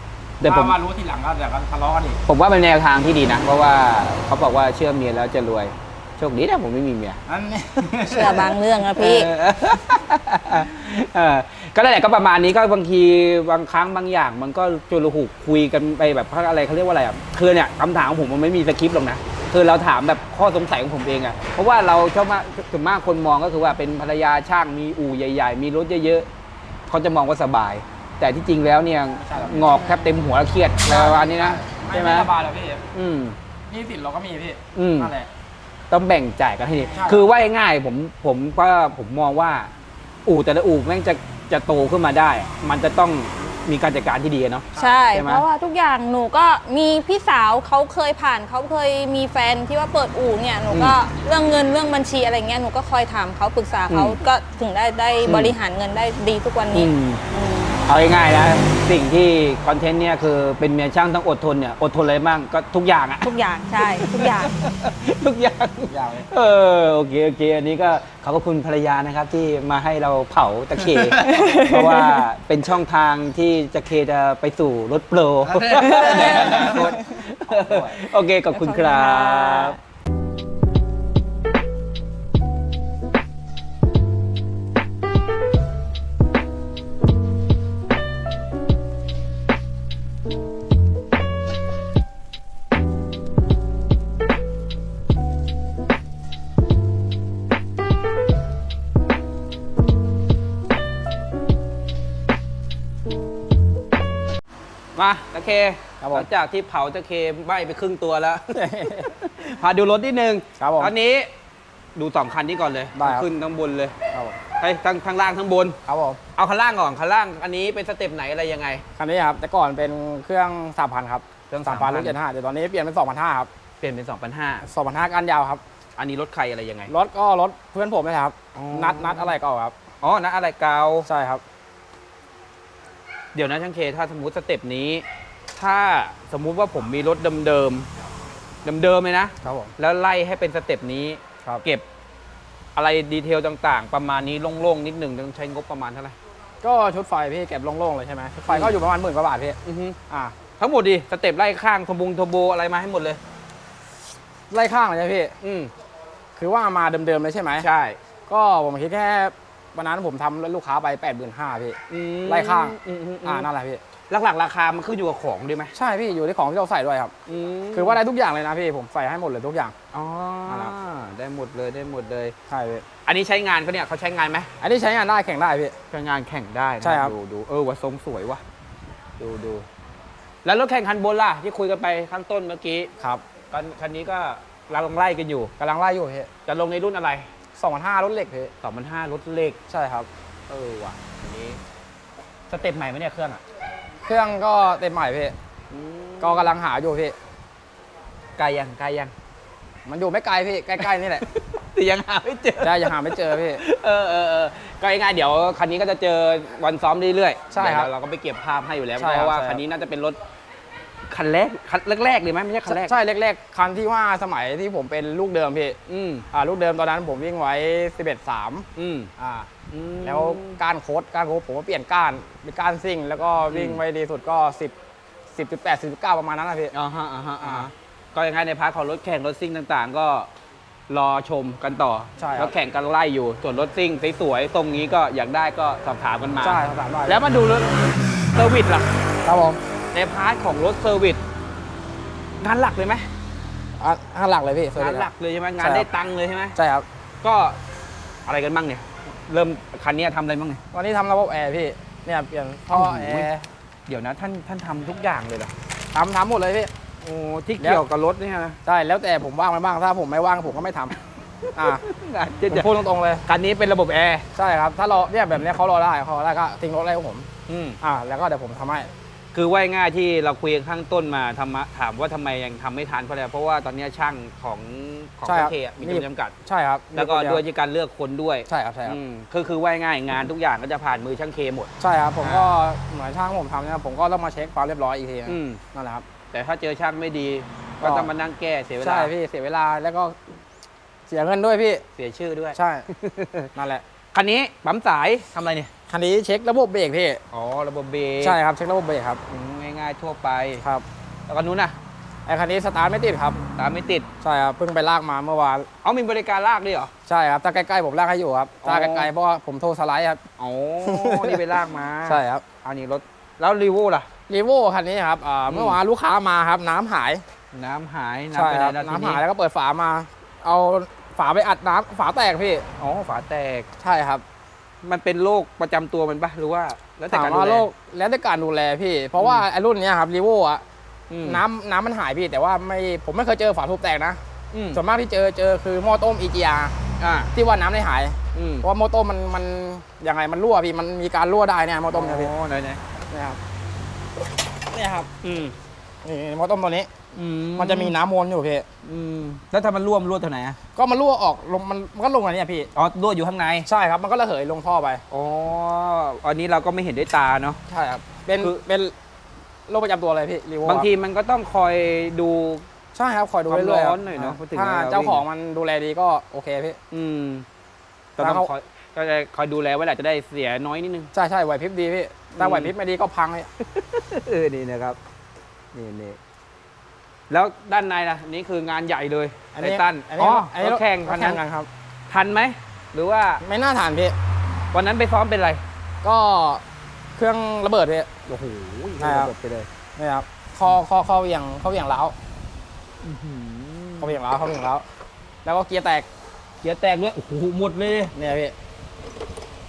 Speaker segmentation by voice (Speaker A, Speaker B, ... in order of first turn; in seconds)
Speaker A: 0.4-0.8, 2.3-7.2, 9.0-26.3, 26.9-32.3, 32.9-33.4, 34.8-35.1, 35.9-39.7, 40.3-45.5, 50.7-51.0, 53.9-54.2, 55.2-55.6, 56.7-57.2, 57.9-79.8, 105.0-111.3, 112.0-114.0, 114.6-115.8, 116.4-118.8, 121.5-122.2, 123.8-124.7, 126.0-126.9, 128.6-129.4, 130.0-131.1, 133.3-137.9, 138.6-141.9, 142.8-146.2, 148.5-148.8, 149.6-150.0, 150.6-153.2, 155.4-155.7, 157.6-158.0, 161.9-163.5, 164.1-165.7, 167.3-168.0, 169.9-172.4, 173.1-174.5, 175.9-178.4, 179.2-179.7, 180.4-182.9, 183.5-185.5, 186.5-187.3, 188.6-189.6, 190.5-191.6, 192.5-193.4, 195.7-196.6, 198.4-199.1, 201.3-210.2, 211.1-212.9, 215.9-216.3, 218.8-219.1, 219.7-220.6, 223.5-223.8, 226.7-230.3, 230.9-238.9, 239.9-241.2, 242.4-243.1, 244.8-246.6, 247.2-247.6, 248.3-250.6, 252.7-253.3, 253.9-255.5, 257.0-258.6, 261.5-264.3, 267.5-267.8, 269.3-276.4, 276.9-282.6, 285.3-285.6, 286.3-289.1, 292.0-293.5, 294.1-295.7, 297.3-298.4, 299.3-300.6, 301.3-301.8, 303.6-304.1, 305.8-306.9, 308.6-309.1, 310.4-314.1, 315.5-315.8, 317.5-319.2, 322.8-323.7, 324.8-327.7, 329.2-329.4, 331.1-331.4, 334.5-334.8, 337.0-337.3, 338.3-338.7, 341.9-342.8, 345.2-345.5, 347.1-348.0, 348.8-350.6, 352.8-353.7, 355.1-357.6, 360.6-362.6, 363.5-365.2, 366.9-367.5, 368.2-371.1, 372.4-372.7, 373.6-375.0, 375.7-376.2, 377.3-381.4, 382.1-383.4, 384.7-385.6, 388.3-389.7, 393.0-394.2, 396.6-398.1
Speaker B: 0.5-2.2, 7.3-8.5, 29.2-29.7, 30.9-32.8, 33.7-35.3, 36.8-37.3, 44.8-45.1, 65.9-66.3, 70.9-71.7, 75.5-76.9, 77.5-78.0, 106.0-106.3, 108.5-109.1, 110.6-110.9, 113.0-113.3, 114.1-114.4, 115.9-116.2, 119.0-123.5, 124.6-125.6, 126.9-129.8, 131.1-131.4, 139.4-139.7, 146.6-149.6, 150.1-150.4, 154.5-155.4, 156.4-157.7, 158.3-163.8, 165.8-167.1, 167.7-169.8, 170.5-170.7, 172.5-172.8, 174.6-175.8, 176.8-177.1, 185.6-186.3, 187.6-188.5, 189.7-190.1, 194.0-195.3, 196.2-197.2, 199.9-201.3, 202.6-203.6, 207.5-207.9, 209.0-209.6, 212.7-215.8, 216.3-218.7, 219.2-219.5, 220.0-224.7, 225.3-226.7, 227.4-227.7, 232.2-232.5, 236.4-237.2, 239.3-239.6, 243.8-245.9, 246.6-246.8, 250.7-253.4, 255.9-256.7, 258.6-260.9, 261.6-261.8, 262.5-263.2, 264.4-267.3, 267.8-268.9, 275.3-277.4, 278.5-279.0, 281.8-286.1, 287.8-288.1, 288.8-290.2, 291.1-291.9, 292.5-292.9, 293.6-293.8, 295.9-297.2, 298.2-299.2, 302.3-303.4, 304.2-305.7, 307.1-310.2, 310.8-311.4, 312.1-312.4, 314.3-317.2, 318.3-322.7, 323.8-324.2, 327.1-330.6, 331.2-334.2, 334.7-336.8, 337.3-342.3, 343.1-343.4, 344.7-345.1, 346.0-346.9, 347.6-348.7, 350.8-352.7, 353.7-355.0, 357.7-358.9, 359.7-360.9, 362.9-366.8, 368.2-368.5, 371.1-373.5, 379.5-381.7, 383.4-384.1, 386.0-386.6, 387.2-388.1, 389.0-389.3, 390.0-392.1, 394.0-394.8, 395.4-396.1, 398.1-398.6
Speaker C: 8.1-9.3, 29.6-30.1, 44.8-57.9, 63.2-64.5, 71.3-72.2, 76.1-76.9, 78.5-79.8